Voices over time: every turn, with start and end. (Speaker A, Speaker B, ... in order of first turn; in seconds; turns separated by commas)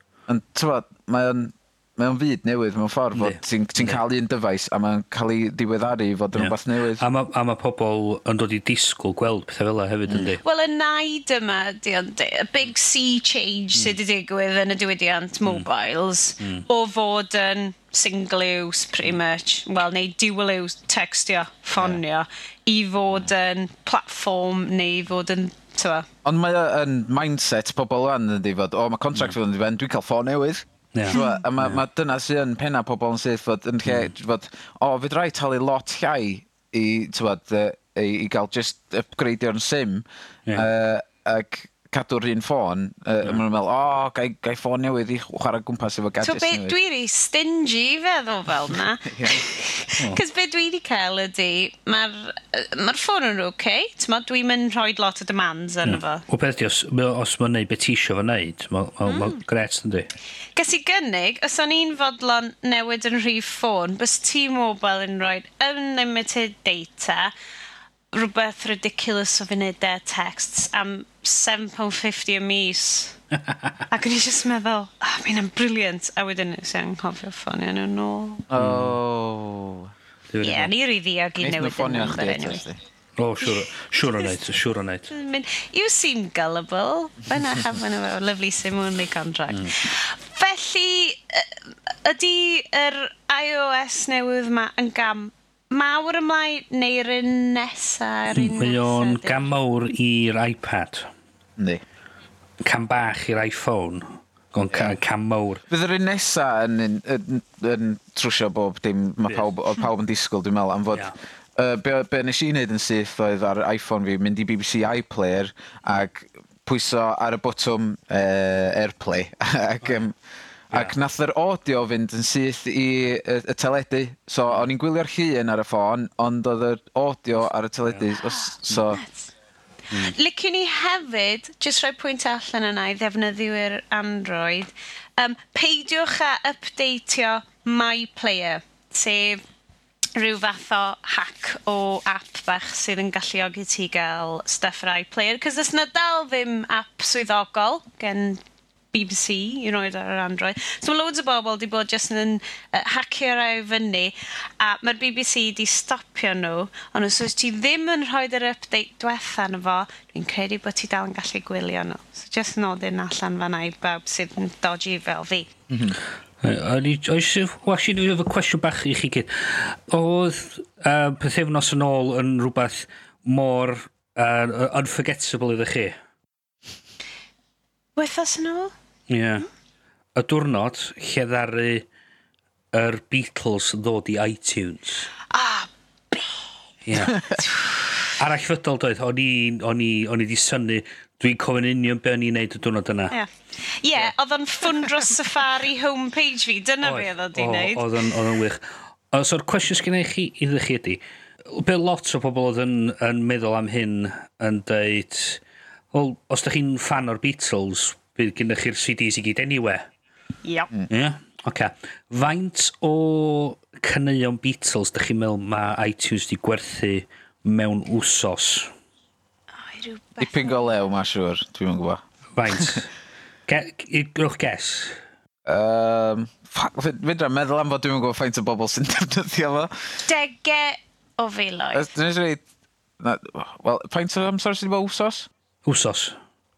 Speaker A: 0.3-7.0, Speaker B: 3.2-4.0, Speaker B: 6.3-10.4, Speaker A: 10.1-10.3, Speaker C: 10.4-26.1, Speaker B: 16.4-16.7, Speaker A: 26.2-46.8, Speaker B: 30.9-31.8, Speaker C: 31.1-31.4, Speaker B: 33.9-34.1, Speaker C: 46.2-56.2, Speaker A: 49.0-49.4, Speaker B: 55.9-60.1, Speaker C: 59.0-59.4, Speaker C: 60.6-67.3, Speaker C: 68.1-73.2, Speaker B: 73.5-73.8, Speaker C: 73.9-78.5, Speaker A: 78.5-79.9, Speaker B: 78.6-79.0, Speaker B: 80.3-80.7, Speaker C: 80.4-82.6, Speaker A: 81.4-82.8, Speaker B: 83.2-85.1, Speaker C: 85.1-91.5, Speaker C: 92.0-99.5, Speaker B: 98.3-101.1, Speaker B: 102.6-105.6, Speaker A: 104.7-105.0, Speaker A: 105.7-120.2, Speaker A: 120.7-129.0, Speaker C: 128.3-129.3, Speaker C: 129.9-139.4, Speaker C: 140.2-165.5, Speaker A: 165.7-166.0, Speaker B: 166.4-176.0, Speaker C: 178.0-178.7, Speaker B: 179.1-179.5, Speaker B: 180.2-181.9, Speaker B: 182.7-185.1, Speaker C: 185.3-186.4, Speaker B: 186.8-187.2, Speaker A: 187.1-187.4, Speaker C: 187.4-188.0, Speaker B: 188.2-193.2, Speaker C: 193.1-197.9, Speaker B: 196.8-205.4, Speaker B: 205.9-209.9, Speaker C: 210.4-210.7, Speaker B: 210.9-218.7, Speaker C: 219.6-220.7, Speaker A: 220.2-222.8, Speaker B: 222.4-222.9, Speaker B: 223.5-225.0, Speaker A: 225.5-229.7, Speaker C: 230.1-231.9, Speaker A: 231.7-232.4, Speaker A: 233.0-235.3, Speaker B: 235.7-236.2